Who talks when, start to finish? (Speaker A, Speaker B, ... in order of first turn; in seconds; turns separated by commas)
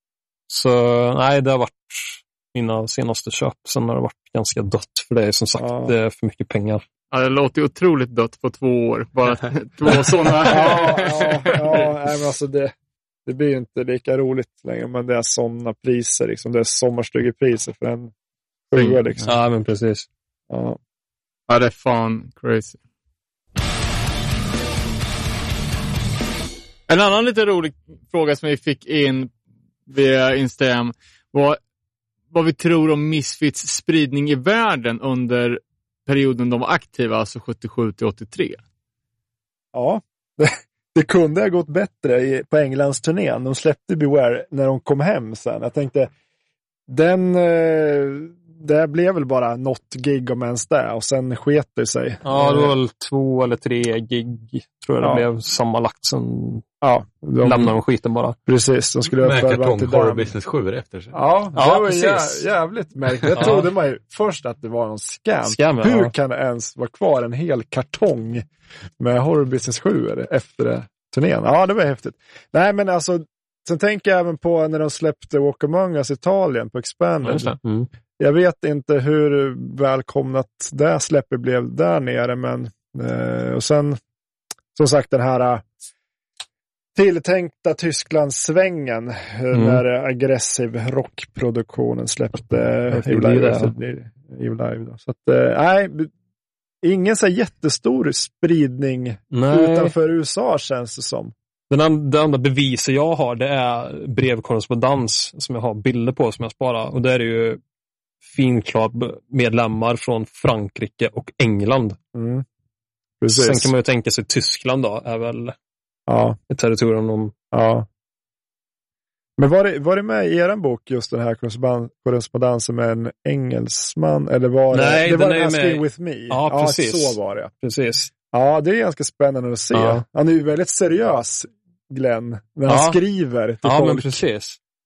Speaker A: 0.5-6.8, Speaker B: 5.6-5.9, Speaker C: 7.1-11.9, Speaker B: 10.4-12.7, Speaker B: 13.2-18.1, Speaker B: 18.7-19.3, Speaker C: 18.7-19.2, Speaker A: 19.2-20.1, Speaker B: 20.5-20.8, Speaker C: 21.5-22.8, Speaker C: 26.9-29.3, Speaker C: 29.9-31.6, Speaker C: 32.3-38.6, Speaker B: 39.7-46.1, Speaker B: 46.9-52.7, Speaker A: 52.2-56.6, Speaker B: 55.0-55.2, Speaker B: 56.8-57.8, Speaker A: 57.4-58.4, Speaker B: 58.5-60.3, Speaker D: 59.2-61.1, Speaker B: 61.1-68.4, Speaker A: 61.5-62.4, Speaker A: 63.3-63.7, Speaker A: 65.4-66.1, Speaker B: 69.0-77.5, Speaker A: 77.2-77.9, Speaker B: 78.2-84.0, Speaker B: 84.7-85.7, Speaker B: 86.9-96.1, Speaker A: 89.5-89.8, Speaker A: 92.9-93.7, Speaker B: 96.8-101.3, Speaker A: 99.3-99.9, Speaker A: 101.7-107.6, Speaker A: 108.2-112.0, Speaker B: 112.1-112.4, Speaker B: 113.2-113.7, Speaker A: 113.3-115.5, Speaker B: 116.1-116.4, Speaker A: 116.5-117.3, Speaker B: 117.5-117.8, Speaker B: 119.4-127.5, Speaker A: 124.7-128.1, Speaker B: 128.3-134.2, Speaker A: 129.7-130.0, Speaker A: 132.7-133.0, Speaker A: 133.6-134.6